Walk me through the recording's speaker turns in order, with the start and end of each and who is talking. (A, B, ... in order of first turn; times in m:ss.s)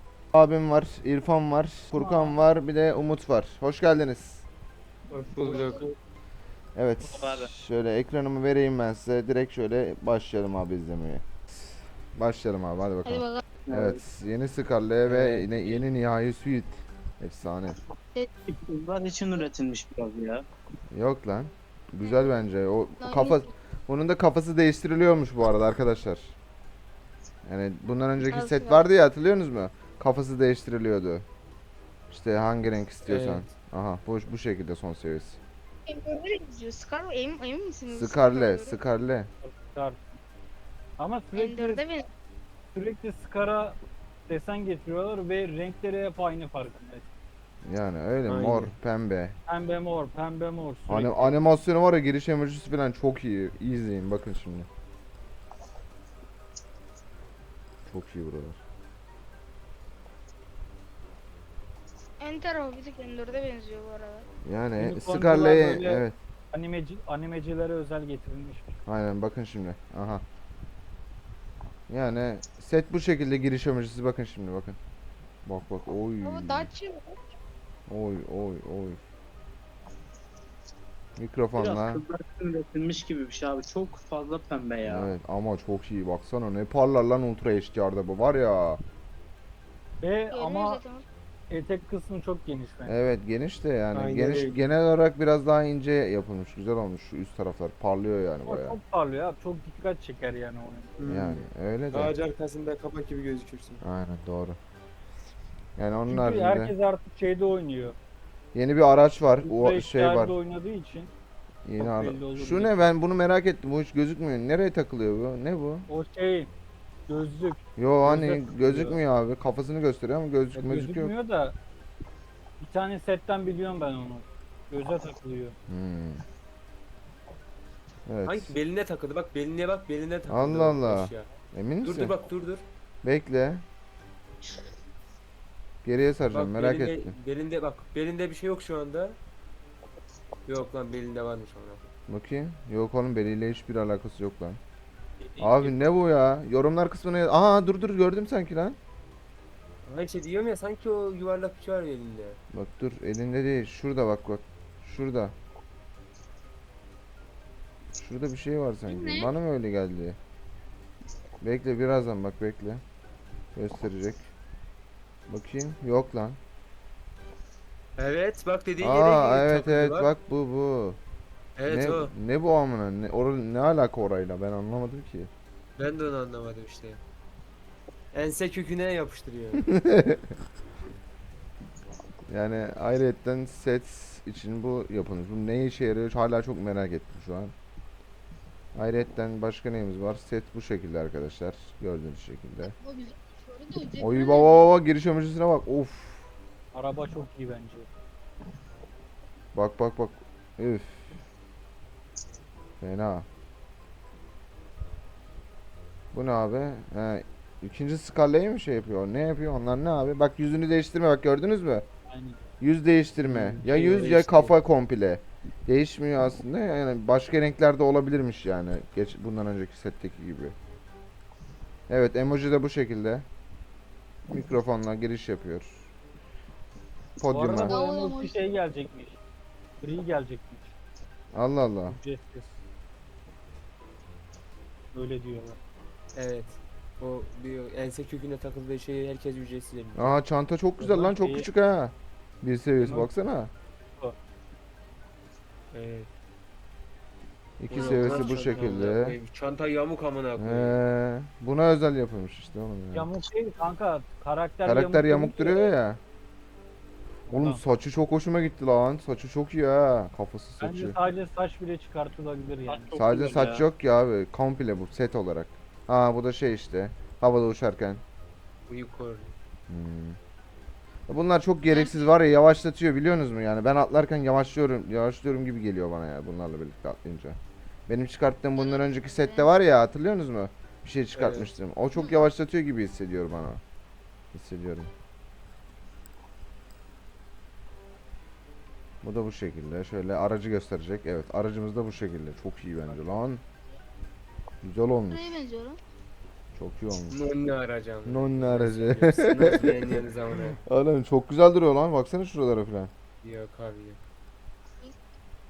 0:00.3-0:04.4 A
0:01.9-0:02.4 B
0:05.1-0:05.9 C
0:06.7-0:11.2 A
0:07.1-0:07.5 D
0:12.1-0:17.8 A
0:13.0-0:13.5 E
0:13.6-0:14.0 D
0:15.0-0:15.5 C
0:18.5-0:20.4 D
0:20.9-0:26.3 A
0:22.0-0:22.4 E
0:23.0-0:23.5 E
0:27.4-0:31.2 A
0:28.2-0:28.8 E
0:32.1-0:35.4 A
0:33.0-0:33.5 C
0:35.9-0:38.8 E
0:37.9-0:39.3 A
0:39.4-0:40.0 B
0:41.0-0:41.8 B
0:41.3-0:42.1 E
0:42.7-0:47.0 B
0:47.6-0:49.4 A
0:48.3-0:48.7 C
0:49.5-0:51.4 B
0:50.9-0:54.7 A
0:57.9-0:58.6 A
1:02.2-1:04.3 E
1:04.4-1:06.1 A
1:04.8-1:08.7 B
1:08.8-1:10.2 A
1:11.9-1:14.8 A
1:15.4-1:16.7 A
1:16.2-1:17.2 E
1:17.9-1:19.0 A
1:21.2-1:22.0 A
1:21.6-1:25.1 D
1:24.8-1:28.8 A
1:30.0-1:30.8 B
1:30.3-1:31.0 E
1:31.5-1:33.0 B
1:32.8-1:38.8 A
1:33.9-1:34.6 C
1:38.4-1:41.0 B
1:41.0-1:43.8 C
1:41.1-1:42.1 A
1:43.8-1:44.6 A
1:45.8-1:46.7 A
1:46.1-1:48.0 B
1:48.5-1:50.3 A
1:49.4-1:51.1 B
1:51.6-1:55.9 A
1:51.8-1:52.7 B
1:55.9-1:56.5 B
1:57.1-1:59.0 B
1:57.8-2:01.1 A
2:00.5-2:01.5 B
2:02.6-2:05.5 B
2:05.7-2:06.2 A
2:08.1-2:08.5 A
2:08.2-2:11.3 C
2:10.3-2:12.1 A
2:11.8-2:12.6 C
2:13.0-2:13.6 A
2:15.8-2:17.1 A
2:16.3-2:19.2 C
2:20.5-2:21.8 C
2:22.1-2:24.6 A
2:25.4-2:28.8 A
2:29.8-2:32.4 C
2:32.5-2:35.3 A
2:38.0-2:40.2 A
2:38.9-2:39.3 E
2:41.4-2:42.8 A
2:43.6-2:44.3 A
2:45.3-2:46.4 A
2:48.0-2:50.1 C
2:48.8-2:51.0 A
2:51.6-2:52.1 C
2:51.7-2:55.3 A
2:55.8-2:57.0 C
2:58.1-2:59.6 C
2:59.7-3:00.2 A
3:02.3-3:07.5 A
3:08.7-3:12.7 A
3:12.7-3:14.7 E
3:14.0-3:16.2 A
3:16.7-3:17.9 B
3:19.5-3:21.1 A
3:22.8-3:23.2 A
3:26.1-3:31.8 A
3:32.1-3:32.4 B
3:32.6-3:40.5 A
3:33.2-3:34.6 C
3:41.9-3:43.2 A
3:44.3-3:45.9 A
3:47.2-3:47.8 A
3:47.3-3:49.2 B
3:47.6-3:48.4 E
3:49.8-3:50.7 B
3:51.3-3:52.0 A
3:51.9-3:52.6 B
3:54.9-3:55.6 B
3:56.1-4:00.2 C
3:59.9-4:03.5 A
4:00.8-4:01.5 B
4:02.8-4:03.1 B
4:05.7-4:06.1 C
4:07.6-4:09.2 A
4:07.7-4:10.8 C
4:07.8-4:08.9 B
4:10.4-4:13.1 A
4:12.9-4:15.7 B
4:14.6-4:16.0 A
4:17.3-4:17.6 B
4:17.3-4:21.0 A
4:20.6-4:23.0 B
4:22.7-4:23.6 D
4:23.0-4:28.0 A
4:28.7-4:29.3 C
4:29.7-4:30.2 A
4:31.1-4:43.6 A
4:31.7-4:32.1 E
4:38.6-4:39.5 E
4:41.1-4:41.5 C
4:44.3-4:44.9 A
4:49.0-4:53.4 A
4:54.6-4:55.4 A
4:55.1-4:55.8 E
4:56.5-4:57.2 A
4:57.1-5:00.6 C
4:58.0-5:00.0 A
5:00.6-5:02.9 A
5:03.2-5:04.0 C